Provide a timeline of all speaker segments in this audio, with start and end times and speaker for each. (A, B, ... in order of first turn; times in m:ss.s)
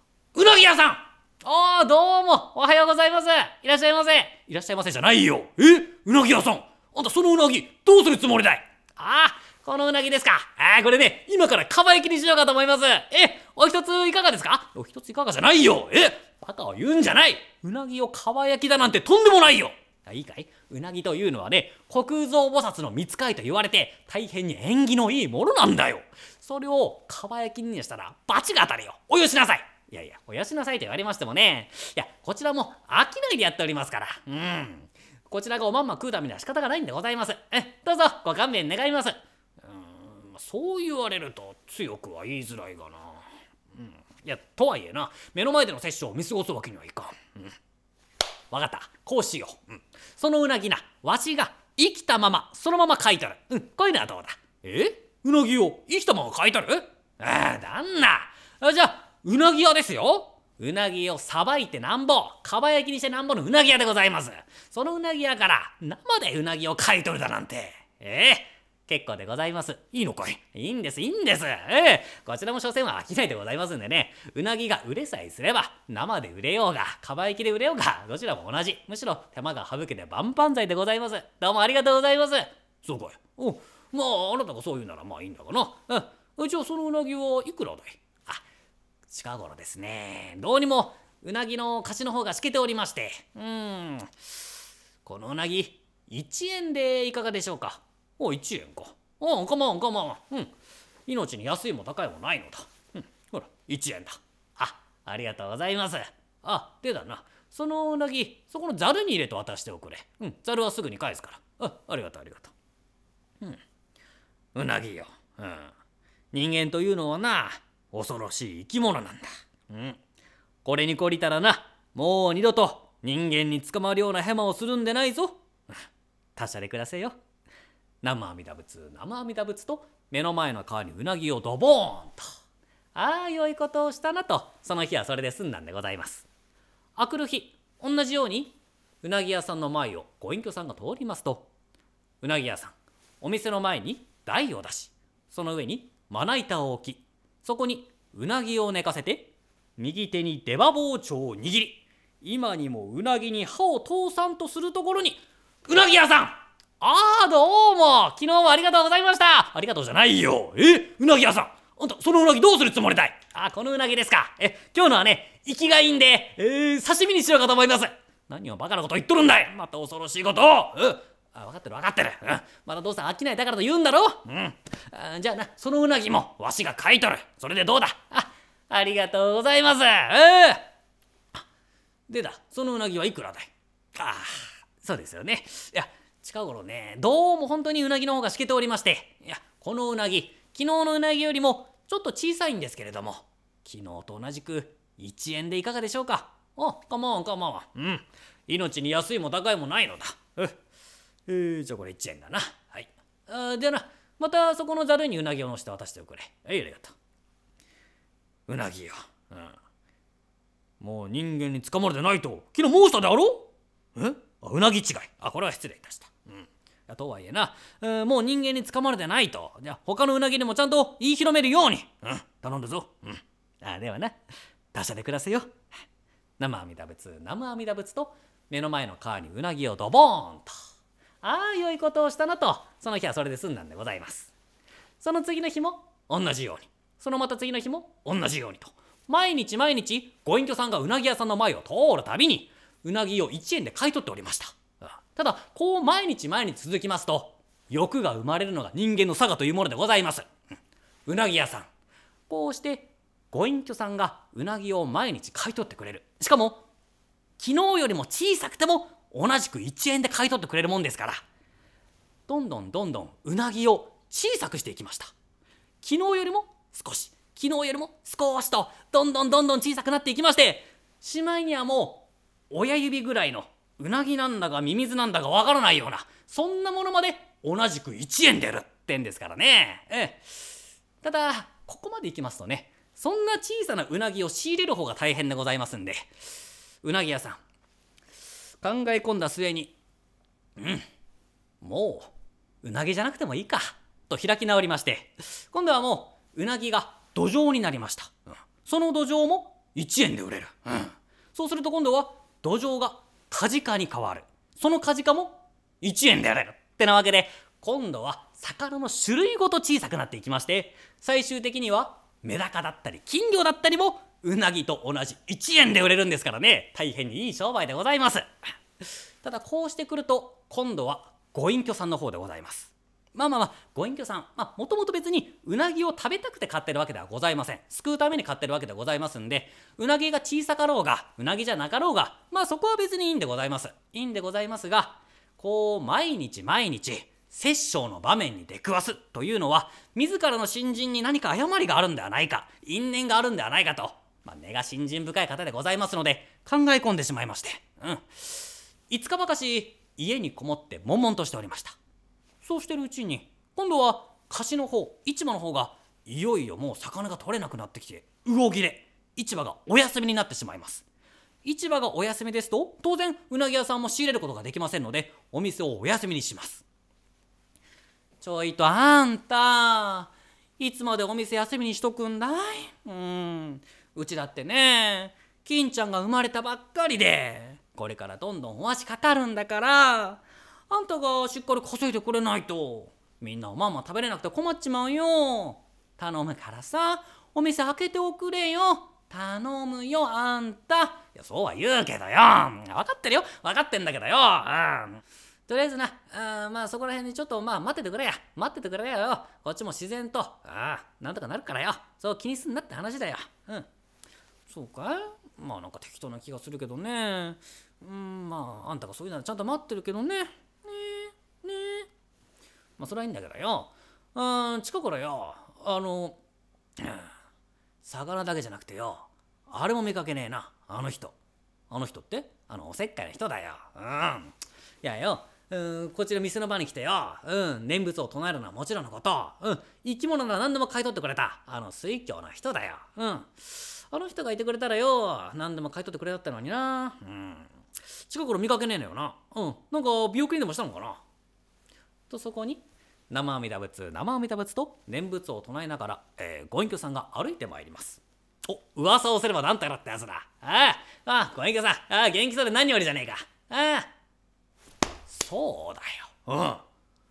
0:00.3-0:47.5 A
0:48.5-1:28.4 A
1:29.1-1:34.2 A
1:35.0-1:40.5 A
1:41.1-1:52.5 A
1:54.5-1:55.7 A
1:56.3-2:00.0 A
2:00.6-2:05.4 A
2:06.4-2:07.2 A
2:08.0-2:12.2 A
2:12.9-2:16.2 A
2:17.0-2:21.5 A
2:22.2-3:00.6 A
3:02.1-3:20.6 A
3:21.3-3:26.9 A
3:28.5-3:29.5 A
3:30.8-3:44.2 A
3:44.7-3:45.5 A
3:46.4-3:50.5 A
3:51.2-3:54.3 A
3:55.0-4:10.3 A
4:11.0-4:11.7 A
4:12.3-4:16.6 A
4:17.4-4:21.2 A
4:22.3-4:25.1 A
4:25.8-4:40.5 A
4:41.0-4:46.1 A
4:46.8-4:47.4 A
4:48.6-4:49.8 A
4:50.6-4:50.8 A
4:51.6-5:18.3 A
5:19.2-5:51.8 A
5:52.4-6:00.8 A
6:01.4-6:06.6 A
6:08.2-6:43.6 A
6:44.5-6:51.9 A
6:52.8-6:56.2 A
6:56.8-6:57.1 A
6:57.8-7:01.1 A
7:01.7-7:17.5 A
7:18.1-7:21.0 A
7:22.1-7:33.9 A
7:35.1-7:36.6 A